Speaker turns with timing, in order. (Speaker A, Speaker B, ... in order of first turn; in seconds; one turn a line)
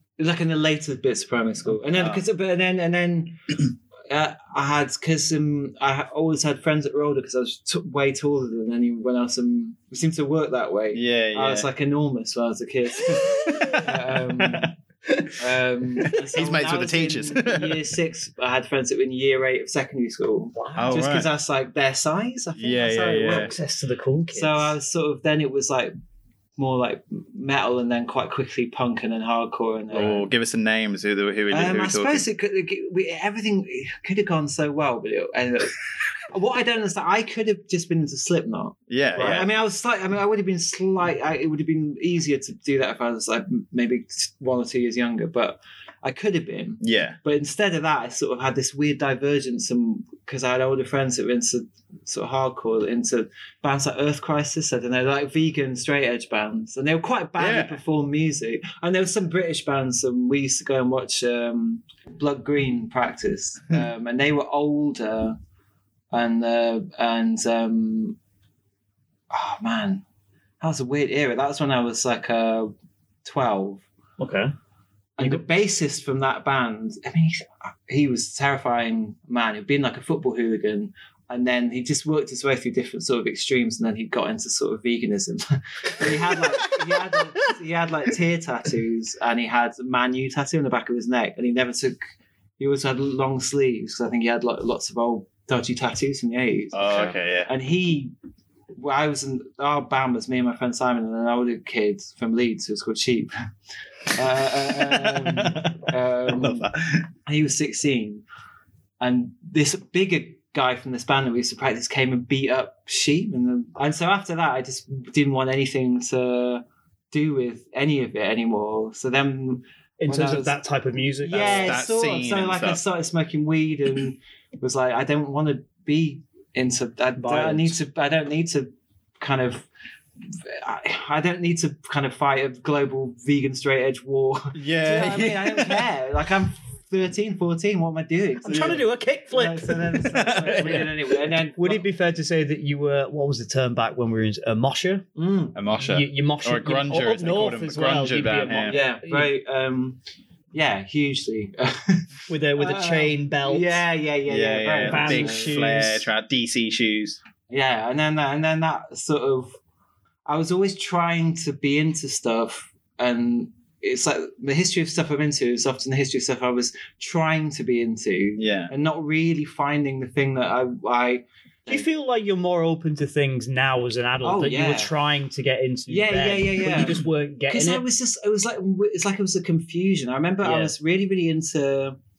Speaker A: 0.2-14.7
Speaker B: 1.9-2.2
Speaker B: 10.9-11.7
Speaker B: 13.1-15.3
Speaker A: 15.4-23.5
Speaker B: 16.0-17.9
Speaker C: 20.6-21.0
Speaker B: 20.8-21.3
Speaker B: 22.6-23.5
Speaker C: 23.3-24.8
Speaker A: 24.3-25.9
Speaker A: 26.6-30.3
Speaker B: 29.9-32.2
Speaker A: 31.5-35.8
Speaker A: 36.3-65.4
Speaker B: 38.9-39.5
Speaker B: 46.8-47.2
Speaker B: 57.4-57.8
Speaker A: 66.1-68.2
Speaker A: 69.3-70.0
Speaker A: 70.6-72.7
Speaker A: 73.2-73.8
Speaker C: 74.2-74.5
Speaker A: 75.2-92.0
Speaker B: 86.0-87.2
Speaker A: 92.6-98.1
Speaker B: 96.7-97.5
Speaker A: 98.7-103.3
Speaker A: 104.1-106.7
Speaker B: 104.7-107.0
Speaker A: 107.2-108.2
Speaker A: 109.0-120.6
Speaker C: 120.0-121.8
Speaker A: 121.2-128.7
Speaker B: 121.4-122.8
Speaker C: 127.2-127.8
Speaker A: 129.2-129.7
Speaker A: 130.4-141.8
Speaker B: 134.5-135.9
Speaker C: 138.4-139.8
Speaker B: 138.5-138.8
Speaker B: 139.9-140.9
Speaker C: 141.6-145.1
Speaker A: 145.2-145.6
Speaker B: 145.5-148.8
Speaker C: 145.8-149.3
Speaker A: 148.7-150.0
Speaker A: 150.5-155.7
Speaker C: 152.3-153.8
Speaker B: 154.3-157.2
Speaker C: 154.9-156.0
Speaker A: 157.5-159.5
Speaker A: 160.3-171.8
Speaker B: 168.4-168.7
Speaker C: 171.7-177.8
Speaker A: 174.2-174.9
Speaker A: 175.9-182.0
Speaker C: 180.4-180.7